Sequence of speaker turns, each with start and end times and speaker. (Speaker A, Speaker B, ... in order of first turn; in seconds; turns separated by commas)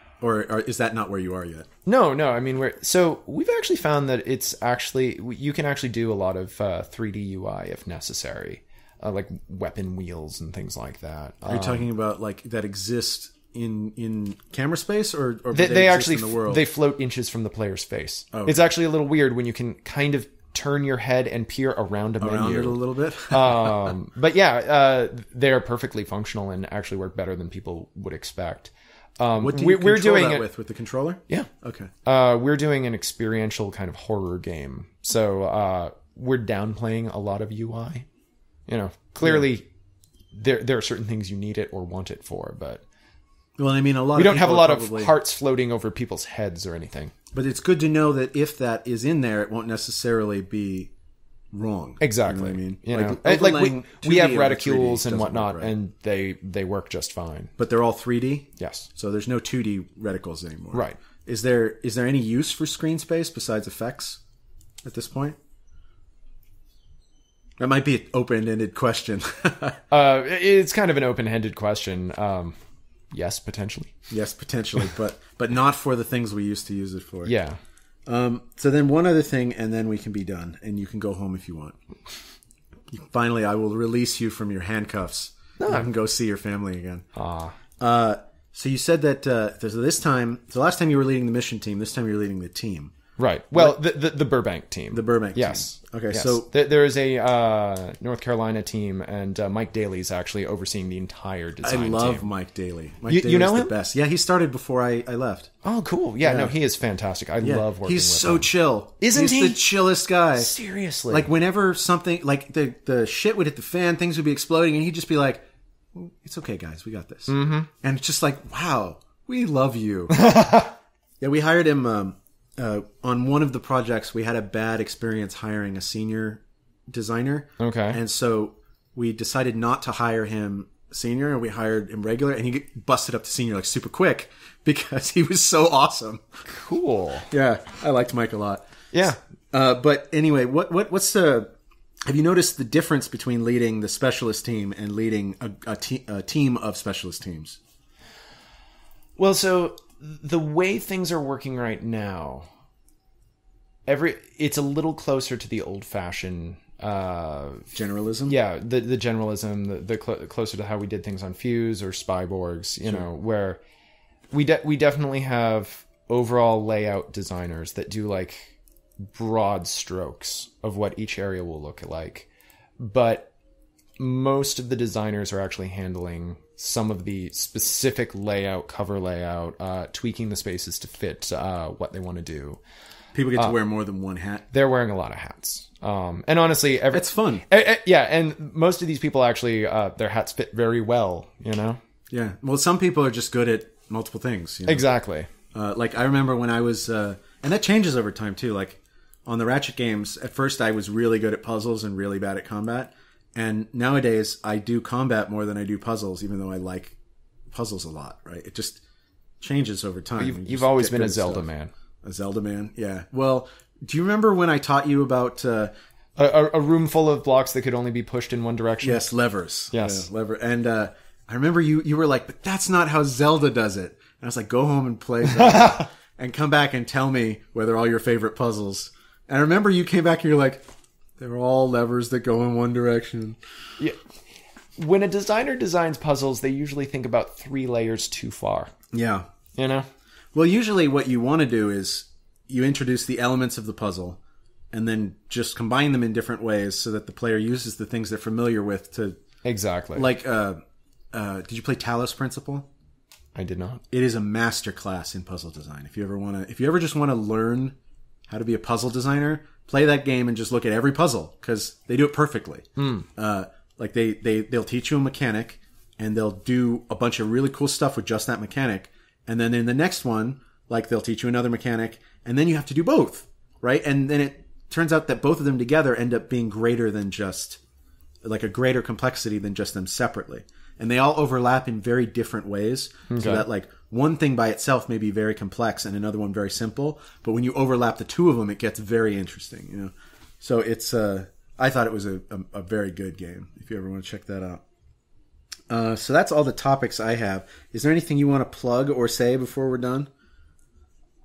Speaker A: 0.2-1.7, Speaker B: 1.9-11.9, Speaker A: 11.4-16.6, Speaker B: 15.5-30.4, Speaker A: 18.3-18.7, Speaker A: 22.2-23.9, Speaker A: 29.4-31.9, Speaker B: 32.0-38.0, Speaker B: 38.7-39.6, Speaker B: 40.3-42.8, Speaker A: 43.6-45.1, Speaker B: 44.1-47.1, Speaker A: 47.3-50.9, Speaker A: 51.5-55.7, Speaker B: 52.0-57.5, Speaker A: 57.6-64.2, Speaker B: 58.6-58.9, Speaker B: 60.7-61.0, Speaker A: 64.8-65.4, Speaker A: 67.6-69.8, Speaker B: 69.9-72.6, Speaker B: 73.1-74.0, Speaker A: 74.1-77.3, Speaker B: 77.2-77.6, Speaker A: 78.1-81.8, Speaker A: 82.9-87.1, Speaker B: 85.6-85.9, Speaker B: 87.2-87.5, Speaker A: 87.8-92.9, Speaker B: 93.2-102.3, Speaker A: 94.9-96.5, Speaker A: 101.6-105.5, Speaker B: 103.1-103.7, Speaker B: 105.6-109.6, Speaker A: 106.2-106.5, Speaker A: 107.4-110.5, Speaker B: 110.3-111.3, Speaker A: 111.1-120.4, Speaker B: 117.3-117.7, Speaker B: 120.1-120.7, Speaker A: 121.2-136.2, Speaker B: 127.6-128.0, Speaker B: 136.4-137.3, Speaker A: 137.3-141.5, Speaker B: 138.9-139.2, Speaker A: 142.1-147.6, Speaker B: 149.2-152.5, Speaker B: 153.9-157.7, Speaker A: 157.7-158.3, Speaker B: 158.3-163.6, Speaker B: 164.3-168.5, Speaker B: 169.1-172.3, Speaker B: 172.8-173.3, Speaker B: 174.0-182.6, Speaker A: 183.1-184.5, Speaker B: 184.5-191.8, Speaker A: 186.9-187.4, Speaker A: 192.1-194.8, Speaker B: 194.7-195.3, Speaker A: 195.5-206.9, Speaker A: 207.5-208.8, Speaker A: 209.4-211.5, Speaker B: 210.2-211.7, Speaker A: 212.0-215.7, Speaker B: 216.2-219.0, Speaker A: 218.8-230.7, Speaker B: 219.7-220.1, Speaker B: 225.3-225.9, Speaker A: 231.2-233.4, Speaker B: 234.8-238.7, Speaker A: 238.9-239.3, Speaker B: 239.6-239.9, Speaker A: 240.3-244.2, Speaker A: 244.7-249.2, Speaker B: 249.4-250.1, Speaker A: 249.9-252.7, Speaker B: 253.3-253.8, Speaker A: 253.9-257.8, Speaker A: 258.3-277.6, Speaker B: 262.8-263.1, Speaker A: 278.2-294.6, Speaker B: 283.1-283.4, Speaker A: 295.7-300.1